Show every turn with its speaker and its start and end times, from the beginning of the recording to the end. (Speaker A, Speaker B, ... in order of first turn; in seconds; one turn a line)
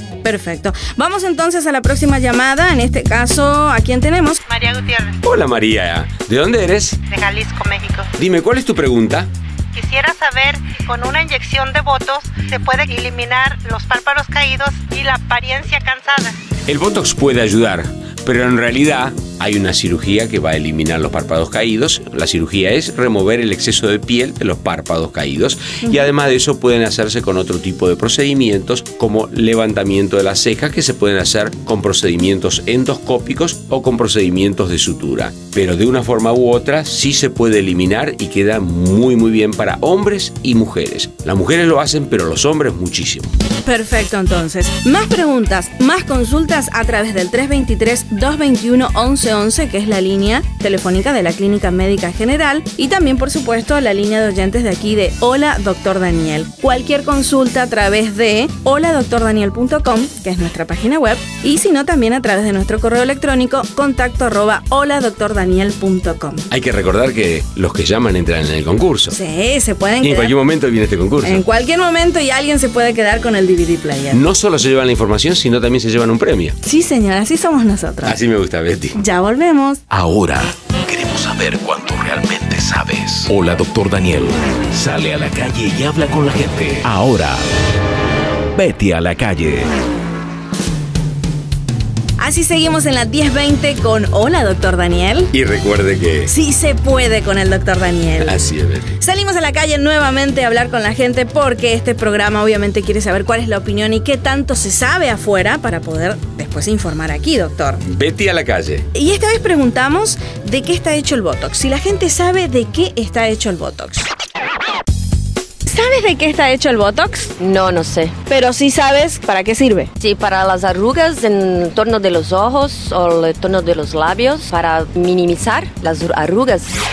Speaker A: 0.2-4.4
Speaker B: 4.5-5.2
Speaker C: 5.2-7.0
Speaker B: 7.1-8.1
Speaker C: 8.2-9.3
Speaker B: 9.7-16.3
Speaker C: 16.7-43.3
Speaker A: 43.6-66.5
Speaker C: 66.5-69.2
Speaker A: 69.1-70.3
Speaker C: 70.0-71.4
Speaker A: 71.2-74.2
Speaker C: 74.1-76.6
Speaker A: 76.6-78.2
Speaker C: 78.0-79.0
Speaker A: 78.9-79.8
Speaker D: 79.9-87.4
Speaker D: 88.5-89.7
Speaker A: 92.2-95.3
Speaker C: 95.3-96.3
Speaker A: 96.3-98.4
Speaker C: 98.2-99.0
Speaker A: 99.0-107.8
Speaker C: 107.8-108.9
Speaker A: 108.9-114.0
Speaker A: 115.7-117.3
Speaker E: 117.4-118.2
Speaker A: 118.3-119.9
Speaker E: 120.0-126.8